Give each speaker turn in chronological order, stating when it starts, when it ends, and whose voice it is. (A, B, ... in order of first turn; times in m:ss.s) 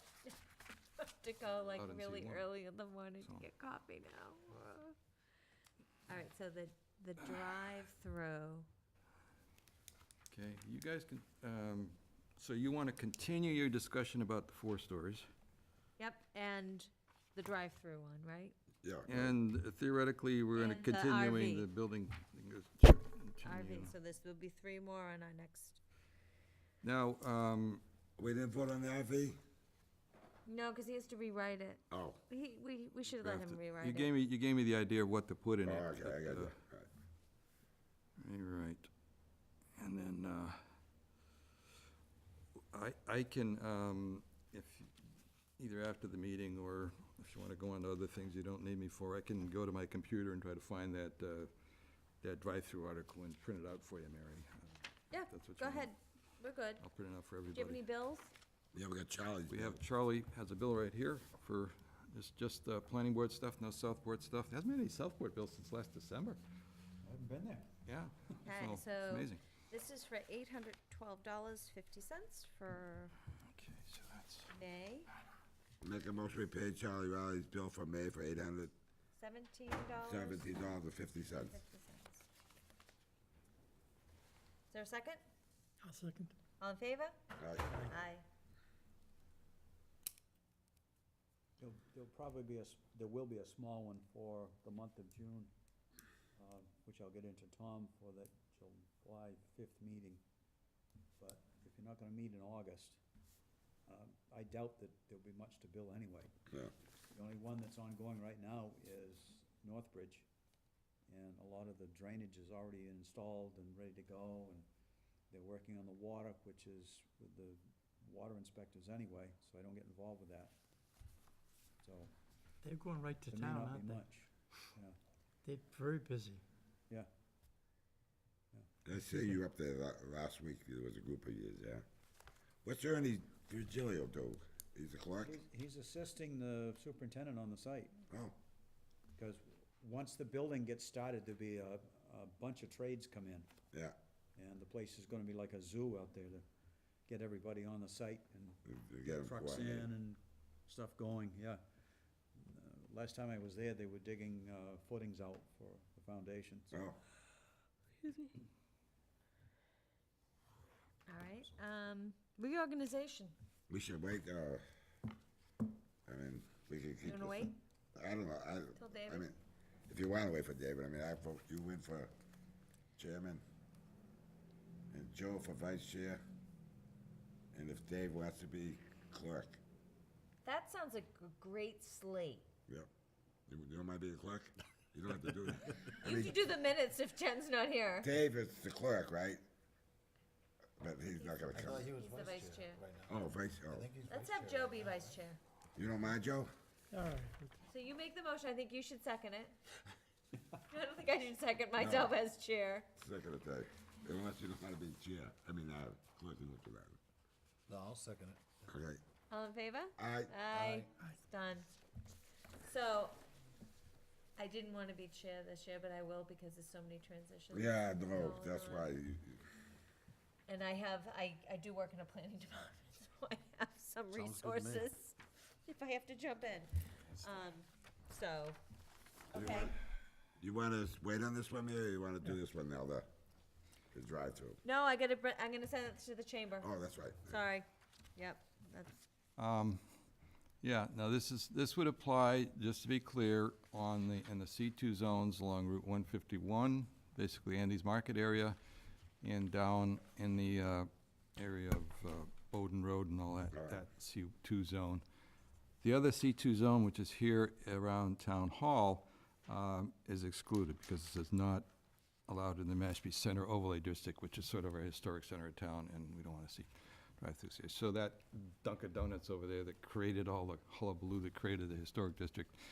0:01.0-0:05.0 A
0:01.6-0:02.5 B
0:03.2-0:03.4 B
0:06.1-0:08.7 A
0:10.3-0:15.2 B
0:16.0-0:18.5 A
0:18.8-0:19.4 C
0:19.1-0:23.9 B
0:20.6-0:21.7 A
0:23.4-0:25.8 A
0:26.8-0:27.8 B
0:28.2-0:29.4 C
0:30.4-0:34.1 A
0:31.9-0:32.2 C
0:33.1-0:36.5 B
0:35.6-0:36.9 C
0:38.2-0:38.9 B
0:39.8-0:40.6 B
0:42.7-0:44.9 B
0:45.6-0:51.5 B
0:52.2-0:55.9 B
0:55.1-0:56.8 A
0:56.8-0:57.8 B
0:57.5-0:58.3 A
0:58.7-0:59.8 C
0:59.5-1:06.4 B
1:07.0-1:07.7 D
1:07.8-1:09.4 B
1:08.4-1:13.1 A
1:13.5-1:14.5 B
1:14.5-1:15.1 A
1:15.8-1:18.7 C
1:19.2-1:20.5 A
1:20.0-1:21.6 C
1:21.4-1:22.3 A
1:24.7-1:25.2 A
1:25.8-1:26.3 E
1:26.6-1:27.2 A
1:27.4-1:27.8 C
1:27.8-1:28.2 A
1:31.6-1:35.5 D
1:36.4-1:40.2 D
1:41.2-1:43.0 D
1:43.9-1:46.3 D
1:47.1-1:50.3 D
1:51.1-1:54.6 D
1:55.3-2:00.5 D
2:01.8-2:02.1 D
2:02.6-2:04.0 E
2:03.3-2:05.0 D
2:05.4-2:06.4 E
2:08.8-2:11.8 C
2:12.6-2:15.4 C
2:15.2-2:18.0 D
2:19.2-2:23.5 D
2:24.4-2:26.4 D
2:27.0-2:31.6 D
2:28.6-2:29.9 C
2:32.4-2:36.8 D
2:36.7-2:37.0 C
2:38.1-2:38.3 A
2:41.1-2:43.3 A
2:43.7-2:44.6 C
2:46.0-2:49.4 C
2:47.0-2:47.6 A
2:48.8-2:49.3 A
2:49.9-2:52.1 C
2:53.0-2:53.4 C
2:54.9-2:56.2 C
2:57.5-2:59.6 C
3:00.4-3:02.5 A
3:03.5-3:06.4 C
3:06.0-3:08.1 A
3:08.0-3:09.4 C
3:10.8-3:11.9 C
3:11.5-3:15.2 F
3:11.9-3:12.8 A
3:13.0-3:13.8 C
3:14.1-3:15.4 A
3:15.7-3:16.5 C
3:16.9-3:17.6 E
3:17.7-3:19.6 A
3:20.7-3:22.9 A
3:21.8-3:22.1 C
3:23.0-3:27.0 C
3:27.7-3:28.7 F
3:28.7-3:29.0 C
3:29.3-3:31.7 A
3:30.0-3:30.3 C
3:30.6-3:30.9 F
3:32.6-3:33.2 A
3:34.4-3:38.9 A
3:37.5-3:39.4 C
3:40.5-3:48.6 A
3:44.1-3:44.9 F
3:49.3-3:49.8 C
3:49.3-3:49.7 A
3:50.4-3:53.1 C
3:53.9-3:54.6 C
3:54.6-3:56.7 A
3:56.6-3:57.4 C
3:57.3-3:59.0 A
3:59.4-3:59.8 B
4:00.6-4:08.6 B
4:09.2-4:15.0 B
4:13.5-4:13.8 C
4:15.8-4:21.7 B
4:22.3-4:32.6 B